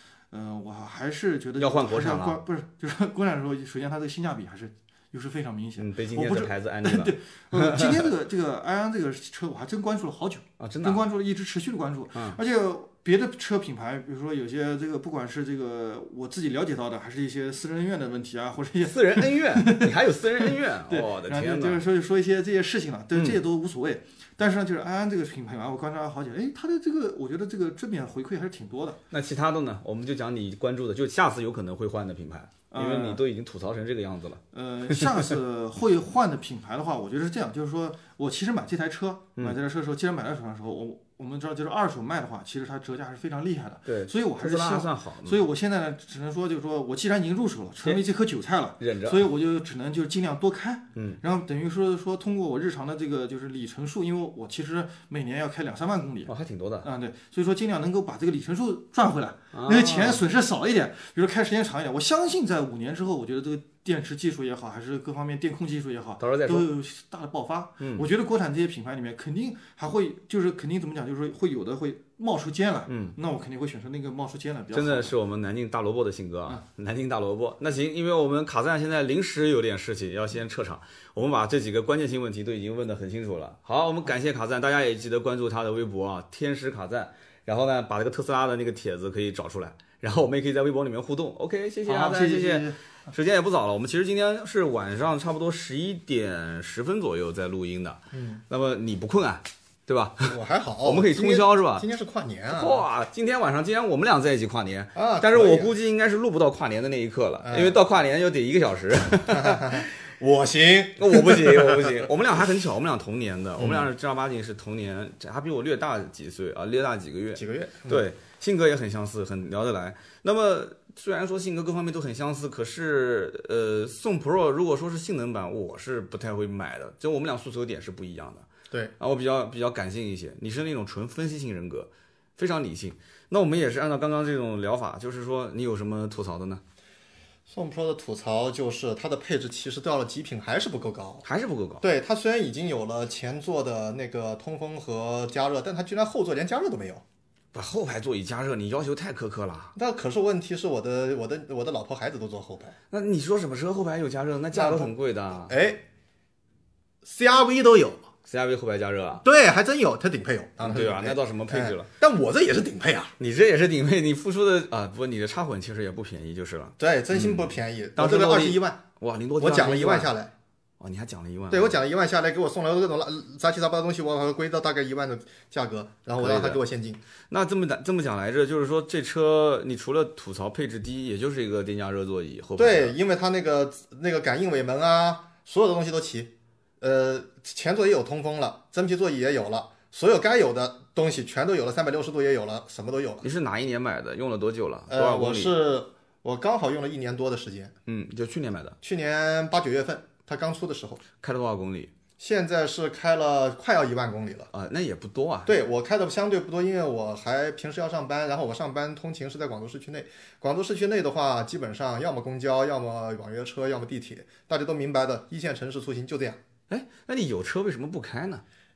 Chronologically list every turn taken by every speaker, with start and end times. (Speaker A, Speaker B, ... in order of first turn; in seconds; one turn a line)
Speaker A: 0.3-29.0
Speaker B: 1.6-2.4
Speaker B: 5.8-8.1
Speaker B: 10.6-11.1
Speaker B: 12.1-12.4
Speaker B: 18.8-21.8
Speaker B: 23.1-23.4
Speaker B: 29.1-35.3
Speaker A: 32.7-33.2
Speaker A: 34.5-56.3
Speaker B: 43.9-45.4
Speaker B: 48.8-49.3
Speaker B: 56.3-56.9
Speaker A: 56.8-75.1
Speaker B: 59.5-60.2
Speaker B: 66.2-66.7
Speaker B: 67.8-68.0
Speaker B: 72.9-73.1
Speaker B: 74.7-101.8
Speaker A: 91.8-92.8
Speaker C: 98.1-98.4
Speaker C: 100.2-102.8
Speaker B: 102.5-109.9
Speaker C: 104.9-105.7
Speaker C: 107.4-107.8
Speaker C: 109.3-112.0
Speaker B: 111.0-128.5
Speaker C: 113.6-113.9
Speaker C: 117.3-118.0
Speaker B: 129.0-136.6
Speaker C: 137.5-141.2
Speaker B: 141.2-141.8
Speaker C: 141.8-147.0
Speaker B: 147.5-149.7
Speaker C: 149.7-152.8
Speaker B: 152.9-155.5
Speaker C: 154.5-154.9
Speaker C: 155.5-155.8
Speaker C: 157.0-158.1
Speaker B: 158.2-159.2
Speaker C: 159.2-163.1
Speaker B: 160.6-161.9
Speaker B: 163.2-170.1
Speaker C: 166.8-168.8
Speaker C: 169.4-170.3
Speaker B: 170.8-171.8
Speaker C: 171.5-177.0
Speaker B: 176.2-176.6
Speaker B: 177.3-182.9
Speaker C: 182.6-193.2
Speaker B: 193.2-195.5
Speaker C: 194.9-197.7
Speaker B: 197.9-198.8
Speaker C: 198.8-201.0
Speaker B: 201.2-201.9
Speaker C: 202.2-204.5
Speaker B: 204.5-205.6
Speaker C: 205.4-216.4
Speaker B: 216.7-218.4